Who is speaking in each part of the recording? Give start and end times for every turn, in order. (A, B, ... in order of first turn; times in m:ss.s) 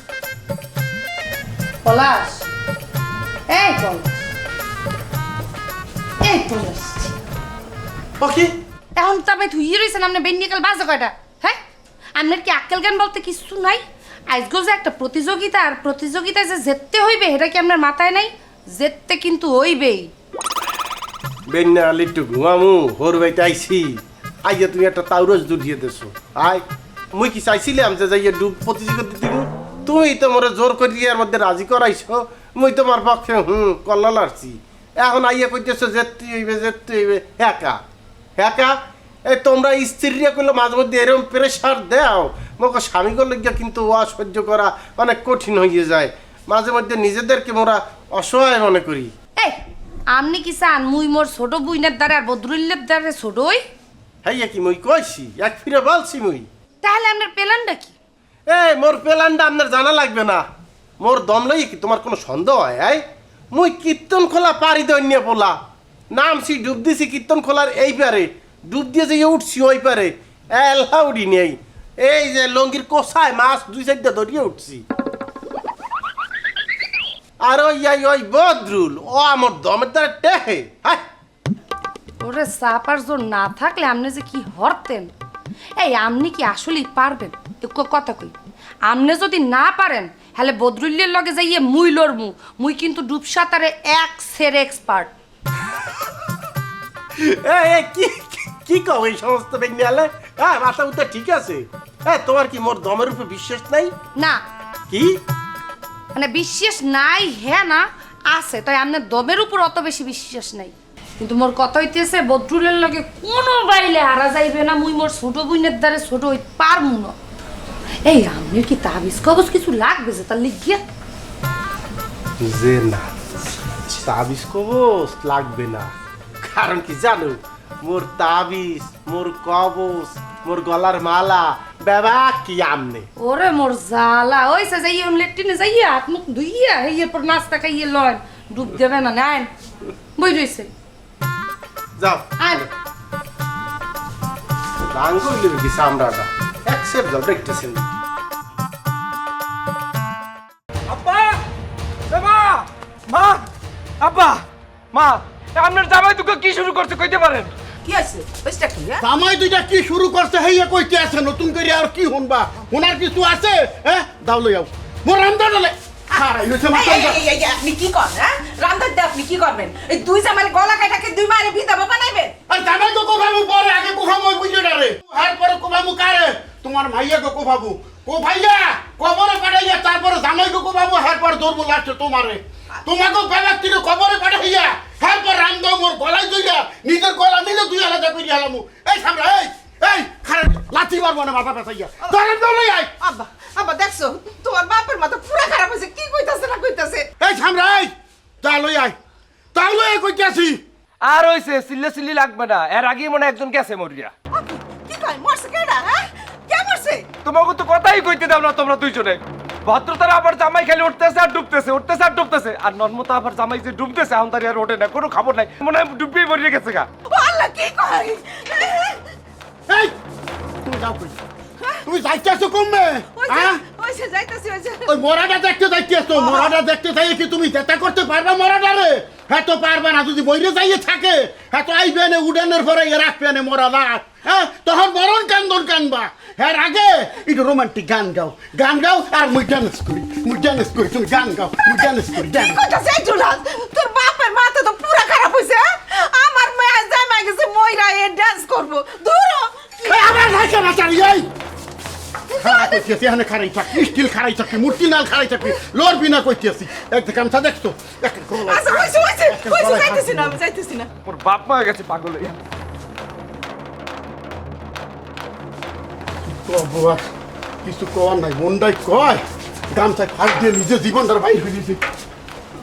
0:01.8-0:02.5 A
0:03.5-0:04.2 A
0:06.2-0:07.2 A
0:08.2-0:08.5 B
0:09.0-0:11.6 A
0:12.2-0:20.1 A
0:21.5-0:37.8 B
0:38.4-0:38.8 B
0:39.3-0:49.1 B
0:50.1-0:53.6 A
0:54.2-0:56.5 B
0:56.8-0:58.0 A
0:58.5-1:00.4 B
1:01.0-1:05.6 B
1:06.1-1:14.8 B
1:17.4-1:21.0 B
1:22.2-1:25.1 A
1:25.8-1:35.1 A
1:37.2-1:44.0 B
1:44.9-1:45.2 B
1:46.1-1:57.2 A
1:58.0-2:00.8 A
2:02.4-2:03.1 B
2:03.8-2:13.1 B
2:13.2-2:19.5 A
2:20.2-2:20.7 A
2:22.0-2:22.7 B
2:22.4-2:22.6 A
2:24.9-2:27.9 B
2:30.9-2:31.4 C
2:32.1-2:33.5 C
2:34.0-2:37.5 C
2:37.8-2:39.0 D
2:39.0-2:47.2 E
2:46.7-2:52.3 D
2:52.5-3:12.9 E
3:13.0-3:17.1 D
3:17.2-3:19.0 E
3:19.5-3:20.6 E
3:21.0-3:24.1 C
3:24.3-3:27.1 D
3:27.2-3:36.9 C
3:37.1-3:39.0 D
3:39.7-3:39.9 E
3:40.6-3:41.2 E
3:41.8-3:43.6 E
3:43.2-3:44.9 D
3:44.8-4:02.6 E
3:46.1-3:46.5 D
4:01.9-4:10.4 D
4:09.8-4:11.3 E
4:12.4-4:12.8 D
4:12.4-4:20.4 E
4:18.4-4:20.9 D
4:21.0-4:22.4 C
4:26.2-4:27.0 E
4:27.6-4:31.8 E